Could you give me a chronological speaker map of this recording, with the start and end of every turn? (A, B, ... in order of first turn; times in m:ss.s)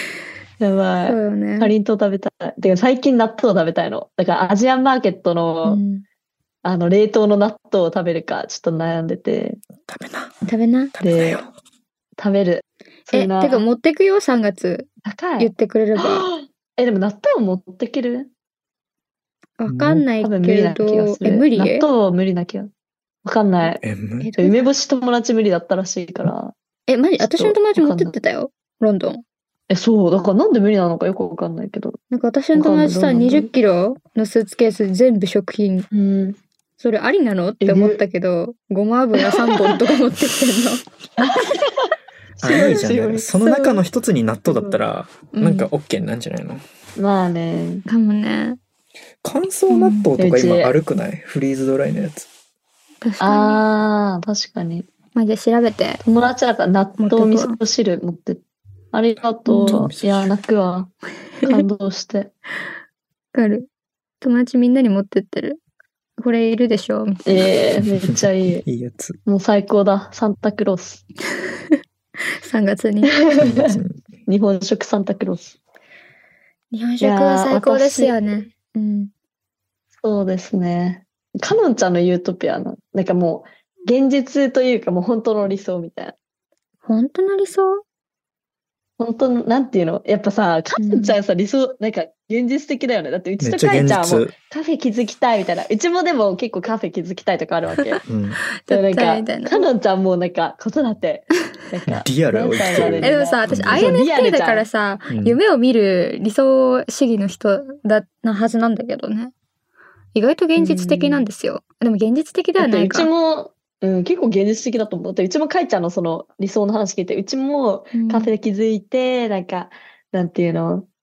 0:00.6-0:05.8 A
0:01.0-0:01.7 B
0:05.6-0:06.0 B
0:06.6-0:09.6 A
0:09.8-0:10.4 C
0:10.5-0:10.9 B
0:10.9-0:11.5 C
0:11.0-0:11.4 A
0:12.2-0:13.6 A
0:13.1-0:16.3 B
0:15.0-0:18.3 A
0:19.6-0:21.9 B
0:19.7-0:20.0 C
0:20.2-0:22.7 A
0:23.2-0:23.8 A
0:23.8-0:24.3 C
0:24.2-0:24.6 B
0:24.4-0:26.5 A
0:26.9-0:29.2 B
0:27.2-0:28.2 A
0:29.7-0:32.0 A
0:32.1-0:35.9 B
0:32.6-0:33.5 A
0:35.9-0:36.4 A
0:36.8-0:40.8 B
0:37.6-0:38.0 A
0:39.2-0:39.8 A
0:41.2-0:43.3 A
0:42.4-0:46.6 C
0:43.4-0:43.8 B
0:45.3-0:45.7 B
0:47.0-0:47.8 A
0:47.9-0:48.6 B
0:49.2-0:52.3 C
0:49.7-0:50.1 B
0:50.2-0:50.7 A
0:53.0-0:53.6 B
0:53.2-0:54.9 A
0:55.2-0:56.0 B
0:56.0-0:58.4 A
0:57.0-0:57.6 B
0:58.9-1:00.9 A
0:59.5-0:59.9 B
0:59.7-1:00.3 C
1:01.4-1:02.3 A
1:03.3-1:03.7 B
1:04.2-1:05.6 B
1:06.2-1:07.5 B
1:07.3-1:08.6 A
1:07.8-1:09.2 C
1:09.3-1:11.0 A
1:12.4-1:13.1 B
1:13.0-1:15.6 A
1:13.4-1:14.0 C
1:16.7-1:19.1 B
1:17.0-1:18.2 A
1:20.0-1:26.2 A
1:26.8-1:27.8 B
1:29.0-1:38.0 A
1:30.8-1:31.2 B
1:33.4-1:34.3 C
1:38.1-1:38.4 C
1:38.6-1:39.7 B
1:38.7-1:44.7 A
1:41.9-1:44.0 C
1:43.0-1:49.3 B
1:45.1-1:45.4 C
1:50.1-1:53.1 B
1:50.6-1:51.3 A
1:52.6-2:00.9 A
1:58.0-1:58.3 B